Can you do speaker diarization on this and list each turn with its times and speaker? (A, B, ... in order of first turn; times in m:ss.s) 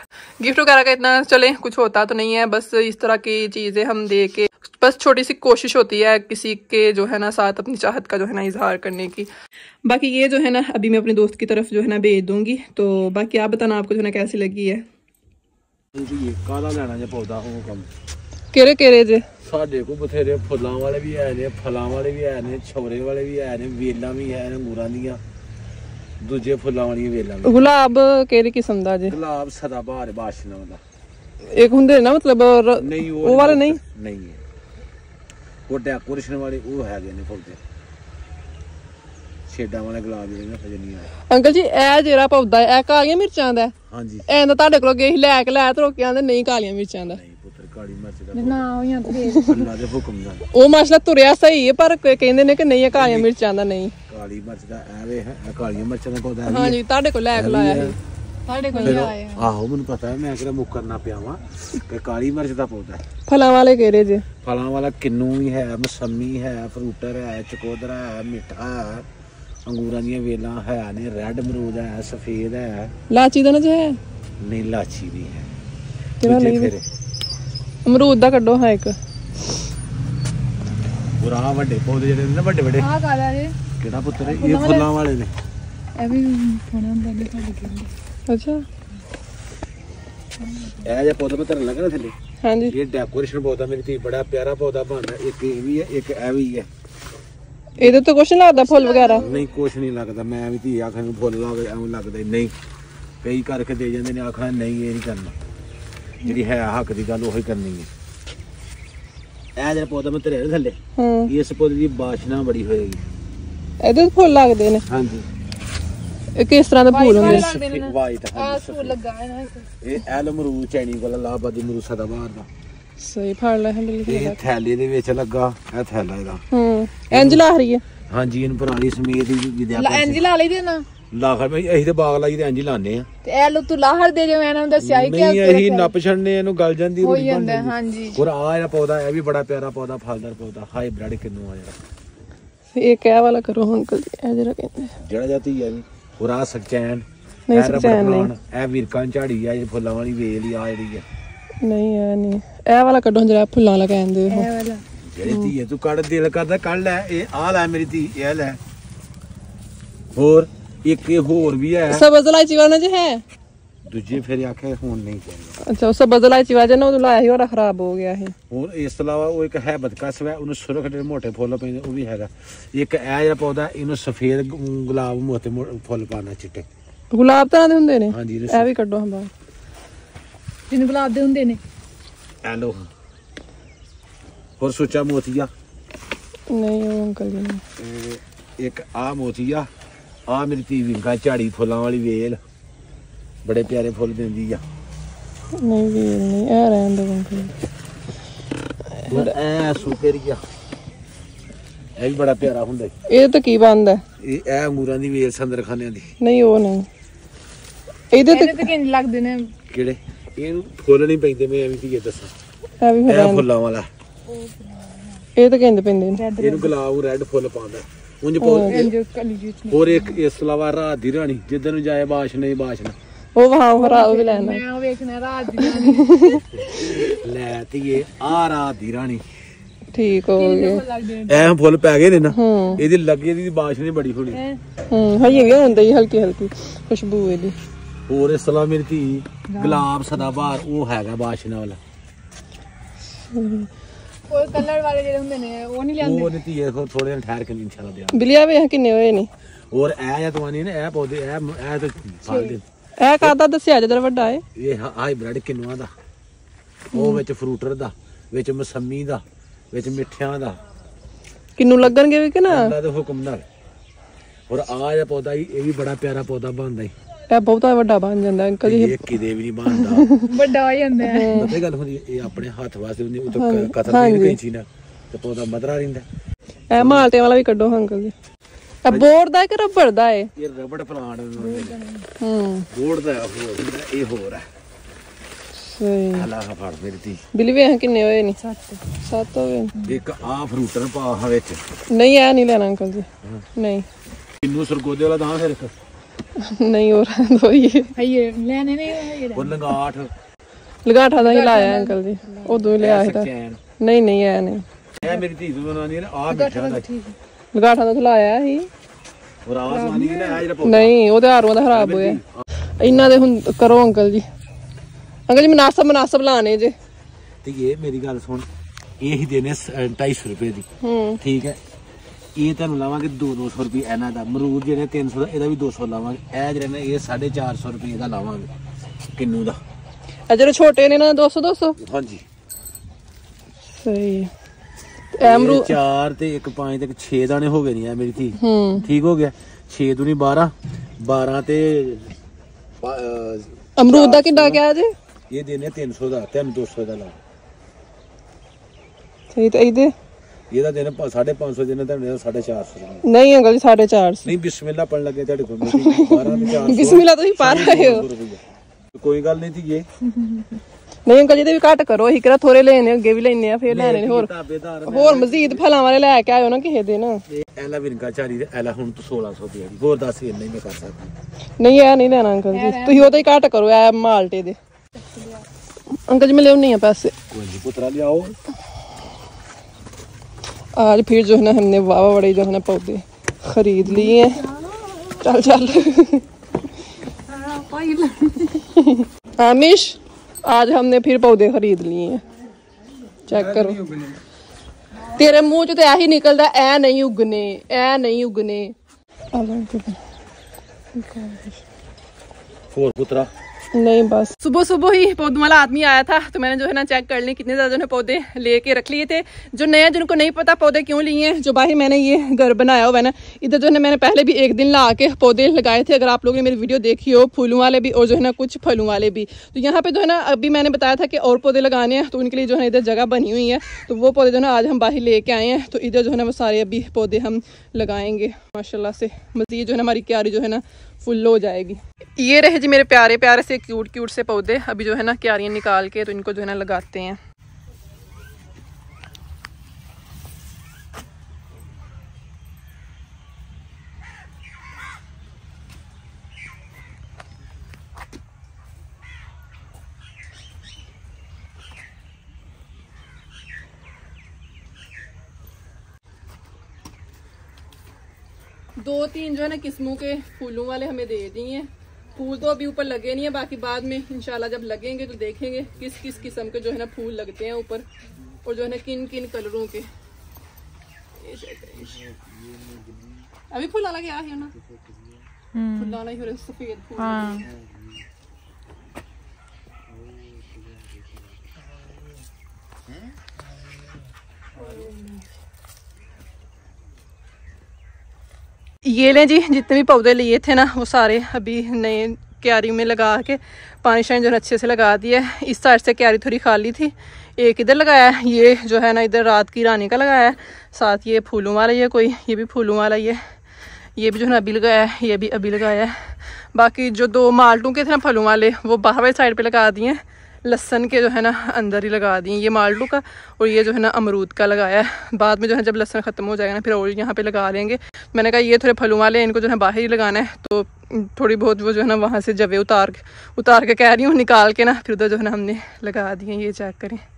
0:00.4-0:09.3 A
0:09.8-0:14.8 A
0:15.9-0:17.9 B
0:18.5-0:19.2 A
0:19.4-0:25.2 B
0:26.2-0:27.7 B
0:27.4-0:29.2 A
0:29.1-0:30.8 B
0:31.5-0:33.8 A
0:32.8-0:34.4 B
0:35.7-0:37.6 B
0:39.5-0:41.1 B
0:41.3-0:43.7 A
0:43.9-0:44.3 B
0:44.3-0:47.2 A
0:47.1-0:48.7 B
0:48.3-0:49.6 C
0:49.1-0:49.5 A
0:49.4-0:50.4 B
0:50.5-0:53.9 A
0:52.9-0:53.3 B
0:54.1-0:56.8 B
0:56.5-0:58.0 A
0:57.4-0:58.0 B
0:58.5-0:59.5 C
0:58.7-0:59.1 A
0:58.8-1:03.0 B
1:03.3-1:04.2 A
1:04.4-1:09.1 B
1:09.7-1:12.9 B
1:13.1-1:14.0 A
1:14.4-1:15.5 B
1:16.2-1:16.7 A
1:16.2-1:16.9 B
1:17.8-1:19.0 A
1:21.2-1:22.9 B
1:22.8-1:23.6 C
1:23.8-1:25.3 B
1:24.2-1:24.9 C
1:26.0-1:27.9 C
1:28.3-1:28.6 A
1:30.5-1:30.8 C
1:30.8-1:32.2 B
1:32.4-1:32.7 A
1:32.7-1:36.7 B
1:37.8-1:39.2 A
1:38.5-1:39.4 C
1:39.2-1:42.5 B
1:43.2-1:45.3 B
1:46.2-1:47.9 B
1:49.6-1:53.0 B
1:51.0-1:51.3 A
1:53.8-1:54.8 A
1:54.9-1:55.3 B
1:56.4-1:57.5 A
1:56.9-1:59.7 C
1:57.2-1:59.0 B
1:59.8-2:02.5 B
2:03.0-2:04.4 A
2:04.1-2:06.4 B
2:06.5-2:07.8 A
2:07.1-2:07.5 B
2:08.1-2:10.3 B
2:09.7-2:10.9 C
2:11.1-2:13.1 B
2:13.2-2:15.9 C
2:14.8-2:21.8 B
2:17.0-2:18.2 C
2:22.7-2:24.9 A
2:25.0-2:31.0 B
2:27.5-2:28.3 A
2:31.6-2:34.5 A
2:34.3-2:34.8 C
2:35.0-2:38.6 B
2:35.2-2:35.5 A
2:40.2-2:42.1 B
2:41.9-2:43.2 A
2:43.9-2:45.6 B
2:45.6-2:48.4 A
2:48.5-2:56.7 B
2:57.1-2:59.3 A
2:58.1-2:58.7 B
3:00.7-3:01.6 C
3:02.4-3:02.9 B
3:04.6-3:05.5 B
3:06.5-3:07.6 A
3:07.8-3:09.7 B
3:10.3-3:12.4 B
3:13.4-3:14.6 B
3:15.6-3:17.5 A
3:19.0-3:19.3 A
3:19.1-3:20.4 B
3:22.0-3:22.9 B
3:23.1-3:24.0 A
3:24.2-3:26.1 B
3:26.2-3:26.9 A
3:28.1-3:28.7 A
3:28.2-3:29.5 C
3:29.7-3:32.3 B
3:32.8-3:33.4 A
3:33.1-3:33.9 B
3:34.3-3:35.2 C
3:35.4-3:36.2 A
3:36.2-3:36.8 C
3:36.4-3:38.9 B
3:38.4-3:38.9 A
3:38.7-3:40.2 C
3:39.7-3:43.0 B
3:43.4-3:44.6 A
3:43.8-3:46.3 C
3:45.6-3:46.6 A
3:46.6-3:49.2 B
3:49.9-3:50.8 A
3:50.4-3:51.5 C
3:51.3-3:54.4 B
3:52.3-3:52.8 A
3:54.3-3:54.6 C
3:54.9-3:57.6 A
3:58.1-4:01.8 B
3:59.5-3:59.9 C
4:03.3-4:03.7 A
4:04.3-4:06.3 C
4:06.0-4:08.2 B
4:08.1-4:09.3 A
4:09.7-4:12.6 B
4:12.3-4:12.5 C
4:13.0-4:14.4 A
4:14.6-4:15.9 B
4:16.9-4:20.6 B
4:16.9-4:17.2 A
4:21.6-4:22.7 A
4:22.5-4:23.4 B
4:24.5-4:26.9 B
4:27.3-4:29.1 A
4:28.6-4:30.1 B
4:29.7-4:30.3 A
4:30.3-4:31.4 C
4:31.0-4:31.6 A
4:31.3-4:36.1 B
4:33.3-4:34.4 A
4:36.7-4:38.1 A
4:36.8-4:37.1 B
4:38.9-4:40.3 A
4:40.4-4:41.8 B
4:41.4-4:42.1 C
4:42.2-4:42.7 A
4:42.7-4:44.5 B
4:45.6-4:46.3 A
4:46.2-4:47.2 B
4:47.4-4:48.4 A
4:48.4-4:48.8 C
4:49.0-4:49.7 A
4:49.8-4:51.6 B
4:51.9-4:53.9 A
4:54.4-4:55.7 B
4:56.4-4:57.9 A
4:58.0-4:59.7 C
4:59.3-5:00.1 B
5:00.8-5:04.6 A
5:01.2-5:02.7 C
5:02.8-5:03.6 B
5:05.0-5:06.9 B
5:06.3-5:07.2 C
5:07.5-5:08.7 A
5:09.4-5:10.9 B
5:09.7-5:10.4 C
5:10.6-5:12.2 A
5:11.7-5:12.5 B
5:12.8-5:14.3 A
5:15.3-5:16.8 A
5:17.4-5:18.5 B
5:19.0-5:20.7 B
5:20.8-5:21.2 A
5:21.2-5:21.6 B
5:22.4-5:28.5 B
5:29.1-5:29.6 B
5:30.3-5:31.8 A
5:31.8-5:32.2 B
5:33.7-5:34.3 A
5:35.1-5:35.8 A
5:35.2-5:42.1 B
5:38.4-5:38.9 A
5:42.8-5:44.6 B
5:43.8-5:44.9 A
5:45.3-5:47.2 B
5:49.3-5:49.9 A
5:50.5-5:53.0 B
5:53.0-5:54.3 A
5:54.2-5:58.4 B
5:55.6-5:58.1 A
5:59.0-5:59.9 B
6:01.1-6:04.3 A
6:03.7-6:05.6 B
6:04.9-6:07.2 A
6:07.3-6:11.1 B
6:11.6-6:14.6 A
6:12.5-6:13.2 C
6:16.1-6:17.1 A
6:17.3-6:18.4 B
6:20.8-6:24.5 A
6:24.0-6:24.6 C
6:25.1-6:26.2 A
6:27.5-6:32.2 A
6:33.3-6:33.8 A
6:35.1-6:38.7 A
6:39.3-6:40.0 A
6:41.0-6:41.6 A
6:42.7-6:43.3 B
6:43.7-7:17.2 A
7:38.8-7:47.8 A
7:48.4-7:49.9 A
7:51.2-7:52.0 A
7:53.5-7:54.5 A
7:55.5-7:56.0 C
7:55.8-7:57.5 A
7:57.0-7:57.5 C
8:08.8-8:23.2 A
8:24.0-8:26.0 A
8:26.5-8:47.0 A